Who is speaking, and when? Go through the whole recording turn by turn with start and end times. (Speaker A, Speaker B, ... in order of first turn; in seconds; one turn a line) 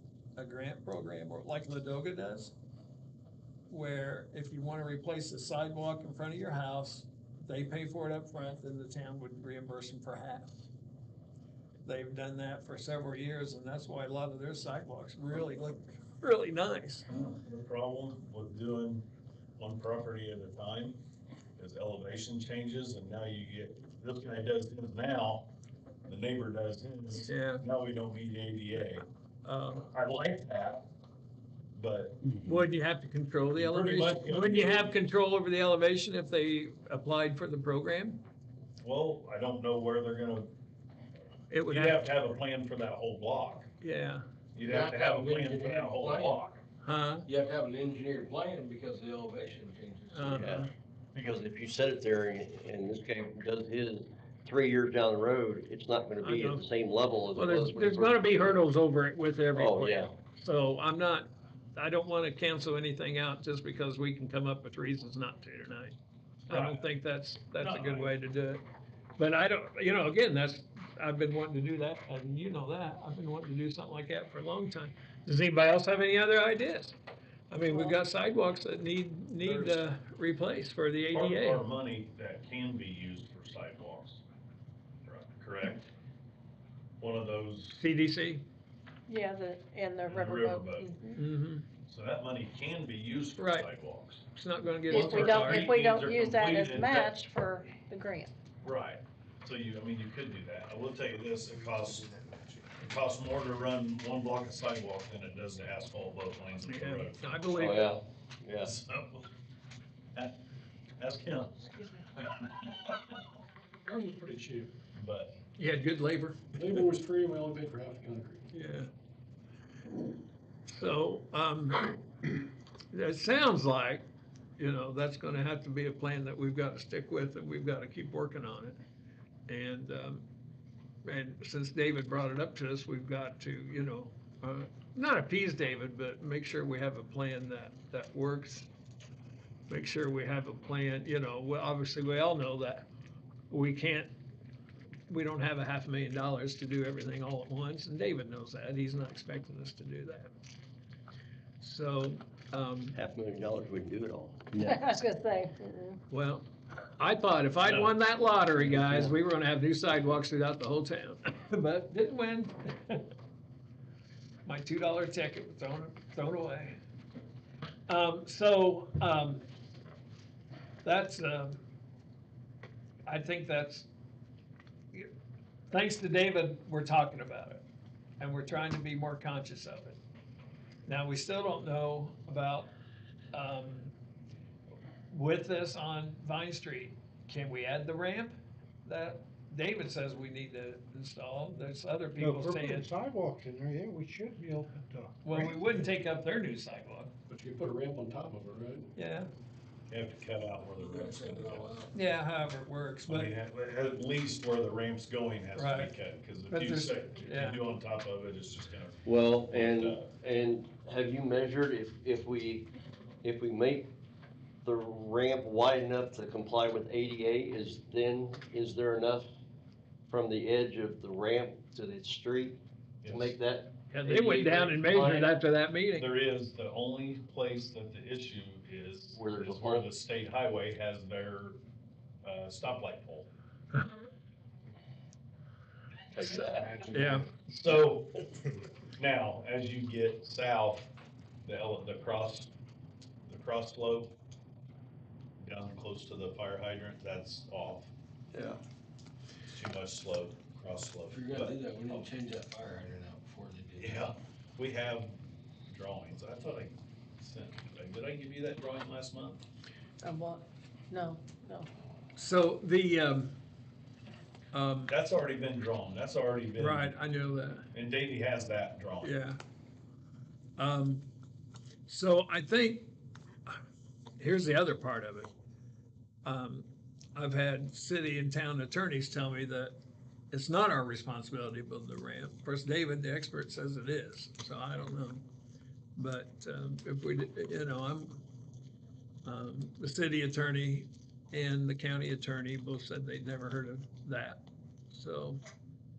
Speaker A: 0.4-2.5
Speaker A: 3.7-10.6
Speaker A: 11.8-17.1
Speaker B: 17.1-19.1
Speaker B: 19.6-21.0
Speaker B: 21.6-25.5
Speaker B: 26.1-29.1
Speaker A: 27.3-27.6
Speaker A: 28.8-29.9
Speaker B: 29.9-30.9
Speaker B: 31.7-32.2
Speaker A: 32.4-38.2
Speaker B: 33.6-35.0
Speaker B: 38.8-40.5
Speaker A: 41.5-42.0
Speaker B: 41.7-43.7
Speaker A: 43.8-44.2
Speaker B: 44.5-46.6
Speaker C: 44.7-46.4
Speaker A: 46.8-47.3
Speaker C: 47.3-50.6
Speaker A: 50.1-50.7
Speaker D: 50.3-58.6
Speaker A: 56.2-56.6
Speaker A: 57.3-66.0
Speaker D: 59.5-60.1
Speaker B: 66.5-66.9
Speaker A: 66.5-68.6
Speaker B: 67.6-68.1
Speaker A: 69.2-77.0
Speaker A: 77.5-81.7
Speaker B: 79.4-79.8
Speaker B: 81.1-84.2
Speaker B: 85.1-85.9
Speaker B: 87.0-87.8
Speaker A: 87.7-88.5
Speaker E: 89.1-91.2
Speaker B: 90.1-90.9
Speaker A: 91.2-91.7
Speaker B: 91.9-94.2
Speaker A: 93.4-93.7
Speaker A: 94.3-95.7
Speaker B: 94.9-97.2
Speaker E: 94.9-98.3
Speaker B: 98.6-107.4
Speaker A: 106.6-108.0
Speaker D: 107.6-108.7
Speaker B: 108.6-109.3
Speaker B: 111.0-113.2
Speaker F: 113.9-114.7
Speaker B: 114.9-115.4
Speaker A: 115.6-116.8
Speaker F: 116.5-118.5
Speaker A: 118.5-118.9
Speaker A: 120.7-124.1
Speaker A: 124.6-128.8
Speaker A: 129.5-130.3
Speaker A: 131.0-138.7
Speaker A: 139.7-142.9
Speaker A: 143.5-144.1
Speaker A: 145.1-150.3
Speaker A: 151.6-153.0
Speaker D: 152.9-154.8
Speaker E: 154.6-156.0
Speaker A: 156.1-163.1
Speaker B: 157.7-157.9
Speaker D: 158.6-159.1
Speaker A: 164.4-166.8
Speaker A: 167.9-169.4
Speaker A: 170.8-171.6
Speaker A: 173.1-173.9
Speaker A: 175.7-177.7
Speaker A: 178.2-180.0
Speaker A: 180.9-182.7
Speaker A: 183.3-183.9
Speaker A: 185.1-192.9
Speaker G: 192.2-195.5
Speaker A: 195.2-197.1
Speaker F: 197.3-198.9
Speaker A: 199.0-199.3
Speaker B: 199.9-201.8
Speaker C: 200.8-201.9
Speaker A: 201.9-203.3
Speaker B: 203.1-210.1
Speaker A: 205.6-205.9
Speaker A: 206.5-207.6
Speaker D: 209.1-212.7
Speaker D: 213.2-213.9
Speaker D: 214.6-219.3
Speaker D: 220.1-225.3
Speaker B: 223.0-223.4
Speaker A: 223.9-226.1
Speaker B: 225.9-231.6
Speaker D: 229.2-229.9
Speaker B: 232.2-233.3
Speaker A: 236.1-237.3
Speaker B: 236.9-238.3
Speaker B: 239.0-240.9
Speaker B: 241.4-242.5
Speaker B: 243.3-244.1
Speaker B: 245.4-247.9
Speaker B: 249.5-251.6
Speaker C: 251.1-254.1
Speaker B: 253.8-255.2
Speaker B: 255.7-259.4
Speaker E: 260.0-261.7
Speaker A: 262.2-263.4
Speaker A: 264.5-264.9
Speaker B: 264.9-266.9
Speaker A: 266.6-267.7
Speaker B: 267.7-269.1
Speaker A: 269.0-269.4
Speaker A: 270.6-271.1
Speaker A: 271.9-272.9
Speaker A: 274.2-275.3
Speaker A: 276.2-279.8
Speaker A: 280.3-285.2
Speaker A: 286.0-288.2
Speaker A: 289.2-295.4